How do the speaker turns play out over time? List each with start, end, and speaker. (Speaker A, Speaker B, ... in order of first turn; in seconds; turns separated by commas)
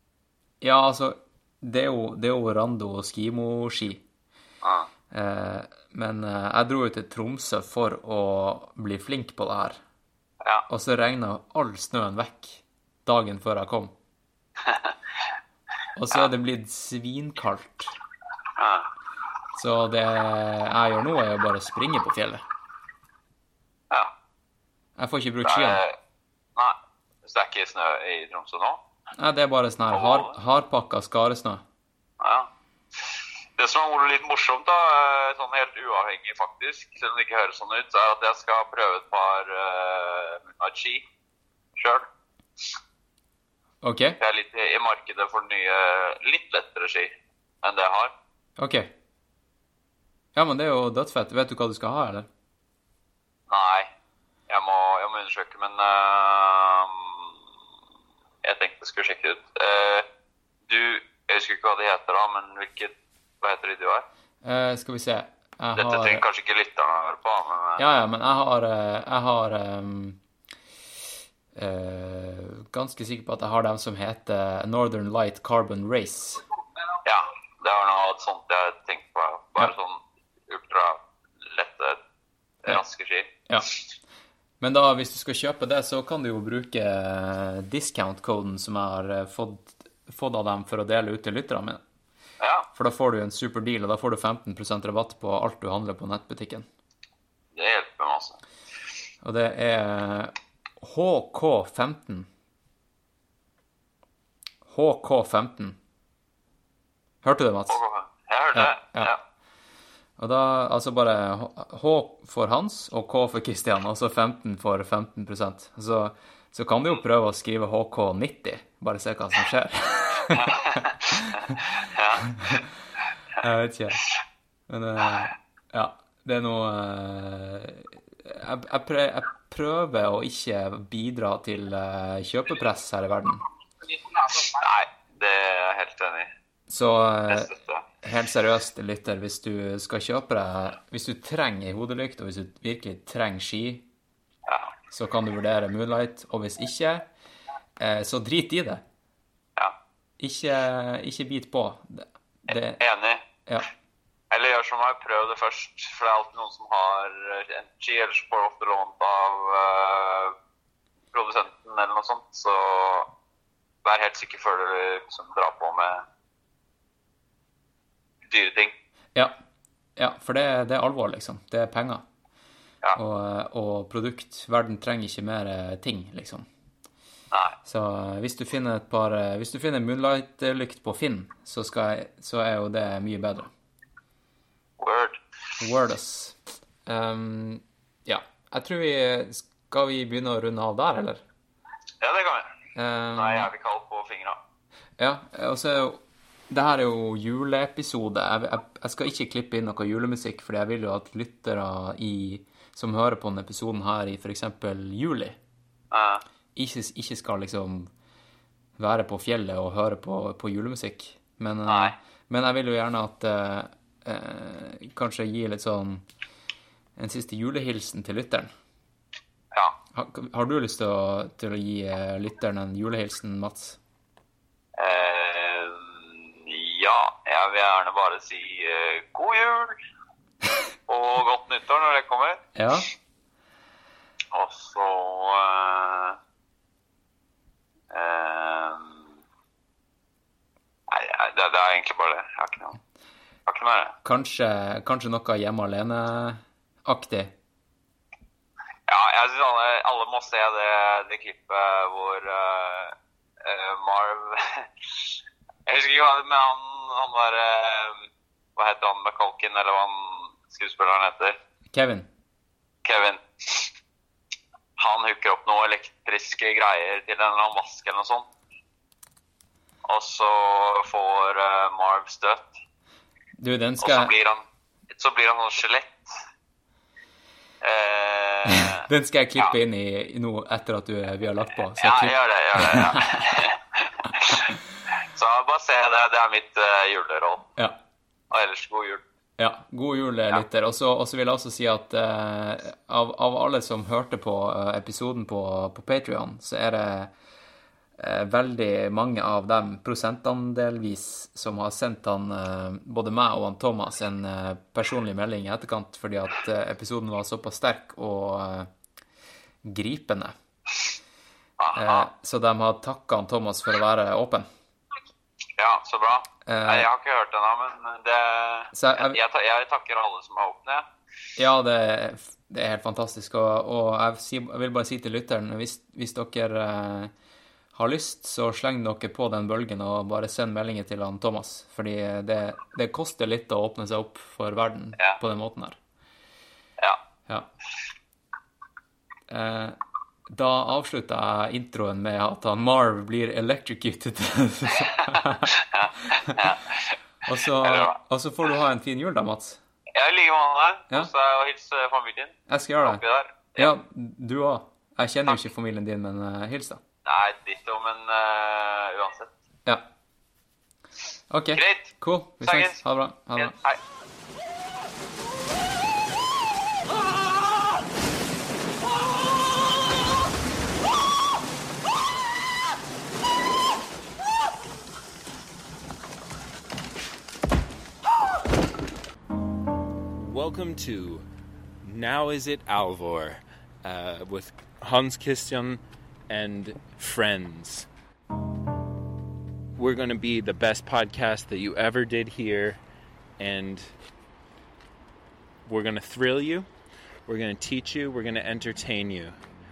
Speaker A: 0.6-4.0, Speaker B: 4.6-4.9, Speaker A: 5.1-9.8, Speaker A: 10.7-13.9, Speaker A: 16.0-17.9, Speaker B: 18.6-18.9, Speaker A: 19.6-22.4, Speaker A: 25.0-25.8, Speaker B: 25.4-25.9, Speaker B: 26.6-28.8, Speaker A: 29.2-31.6, Speaker B: 29.9-30.3, Speaker B: 32.2-32.5, Speaker B: 33.6-41.0, Speaker B: 41.8-42.0, Speaker A: 43.8-44.2, Speaker B: 44.2-48.1, Speaker A: 48.6-48.9, Speaker A: 50.4-52.3, Speaker B: 53.5-53.9, Speaker B: 54.5-57.2, Speaker B: 58.4-60.1, Speaker B: 60.7-64.1, Speaker A: 64.4-66.2, Speaker B: 65.8-67.8, Speaker A: 67.8-70.2, Speaker A: 71.5-76.4, Speaker B: 77.0-82.0, Speaker B: 82.6-83.3, Speaker A: 84.6-91.8, Speaker B: 92.4-92.7, Speaker A: 92.8-96.7, Speaker B: 97.5-98.4, Speaker A: 99.2-102.3, Speaker A: 104.7-105.8, Speaker A: 107.2-107.8, Speaker B: 107.7-109.2, Speaker A: 108.5-109.1, Speaker A: 110.2-121.6, Speaker B: 121.9-122.2, Speaker A: 122.3-122.6, Speaker A: 123.4-124.1, Speaker A: 124.7-133.4, Speaker B: 134.2-136.3, Speaker A: 136.7-137.5, Speaker B: 137.3-137.8, Speaker A: 138.0-143.8, Speaker B: 144.5-144.7, Speaker A: 144.9-147.1, Speaker A: 147.8-148.8, Speaker A: 150.2-152.8, Speaker B: 152.8-153.2, Speaker B: 154.3-160.3, Speaker B: 161.1-163.1, Speaker B: 163.8-166.0, Speaker B: 168.3-168.7, Speaker A: 170.0-172.0, Speaker A: 172.9-176.5, Speaker A: 177.7-183.5, Speaker B: 184.8-185.2, Speaker A: 185.6-191.2, Speaker B: 192.0-192.5, Speaker A: 192.8-193.5, Speaker B: 193.2-194.4, Speaker A: 195.0-205.4, Speaker B: 205.9-206.2, Speaker A: 206.6-207.9, Speaker A: 208.8-216.1, Speaker B: 211.7-211.9, Speaker A: 217.0-218.5, Speaker A: 219.9-223.8, Speaker B: 224.8-229.8, Speaker B: 230.9-232.4, Speaker A: 232.6-232.9, Speaker B: 234.3-236.2, Speaker B: 237.9-238.9, Speaker B: 240.9-242.8, Speaker B: 243.5-243.9, Speaker A: 244.0-247.3, Speaker B: 248.9-254.7, Speaker B: 255.7-258.0, Speaker B: 258.6-261.4, Speaker A: 261.7-262.1, Speaker B: 262.9-263.7, Speaker B: 264.8-268.3, Speaker B: 269.9-272.5, Speaker A: 273.4-274.1, Speaker B: 273.8-274.4, Speaker B: 274.9-276.0, Speaker B: 277.6-278.8, Speaker A: 278.8-283.2, Speaker B: 281.8-287.5, Speaker B: 288.3-289.0, Speaker A: 289.4-297.1, Speaker A: 298.0-308.7, Speaker A: 309.6-310.4, Speaker B: 311.6-312.1, Speaker A: 311.8-314.5, Speaker B: 315.6-320.9, Speaker A: 316.5-316.9, Speaker A: 318.7-319.2, Speaker A: 321.4-327.1, Speaker A: 327.7-335.8, Speaker A: 339.3-339.8, Speaker A: 340.3-345.6, Speaker B: 345.6-347.9, Speaker A: 347.3-349.6, Speaker B: 349.9-353.7, Speaker A: 352.5-353.0, Speaker A: 353.6-356.8, Speaker B: 357.1-359.3, Speaker A: 361.3-363.5, Speaker B: 361.6-361.9, Speaker B: 362.4-362.8, Speaker B: 363.4-363.8, Speaker C: 380.1-381.3, Speaker C: 381.8-387.9, Speaker C: 389.8-392.8, Speaker C: 393.4-393.9, Speaker C: 395.6-396.7, Speaker C: 397.3-399.4